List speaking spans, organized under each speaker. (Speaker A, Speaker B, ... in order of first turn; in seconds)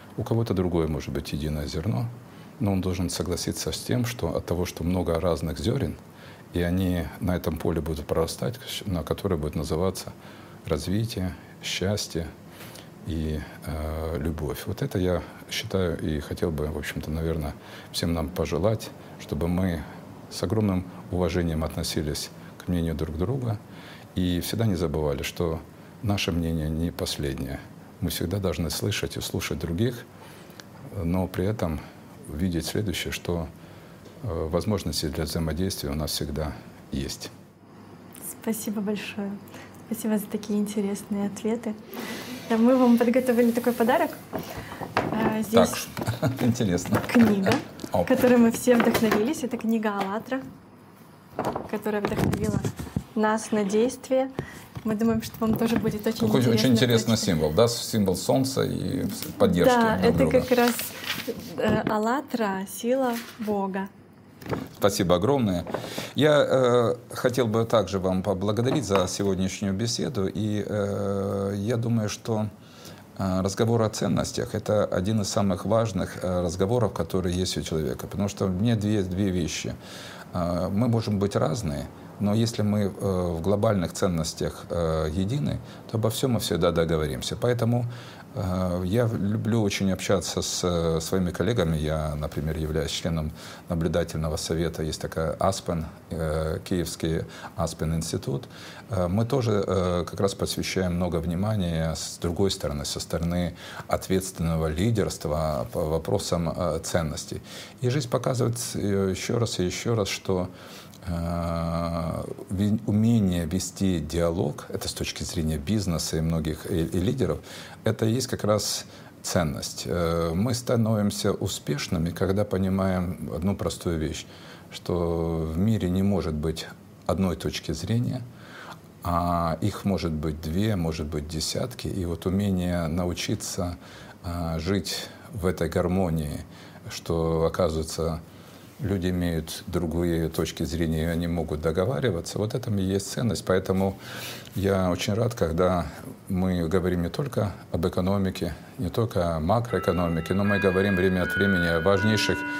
Speaker A: 0.1-6.0, 6.5-10.1, 10.6-12.3, 13.0-23.6, 24.1-30.0, 30.9-33.5, 34.2-37.3, 45.5-48.1, 56.2-60.5, 64.8-72.5, 73.2-79.7, 80.3-110.5, 111.0-128.2, 129.0-138.2, 138.8-144.0, 144.5-152.4
Speaker B: 38.2-41.8, 42.5-44.2, 45.1-45.8, 47.1-50.4, 51.6-54.3, 54.8-57.3, 59.4-63.9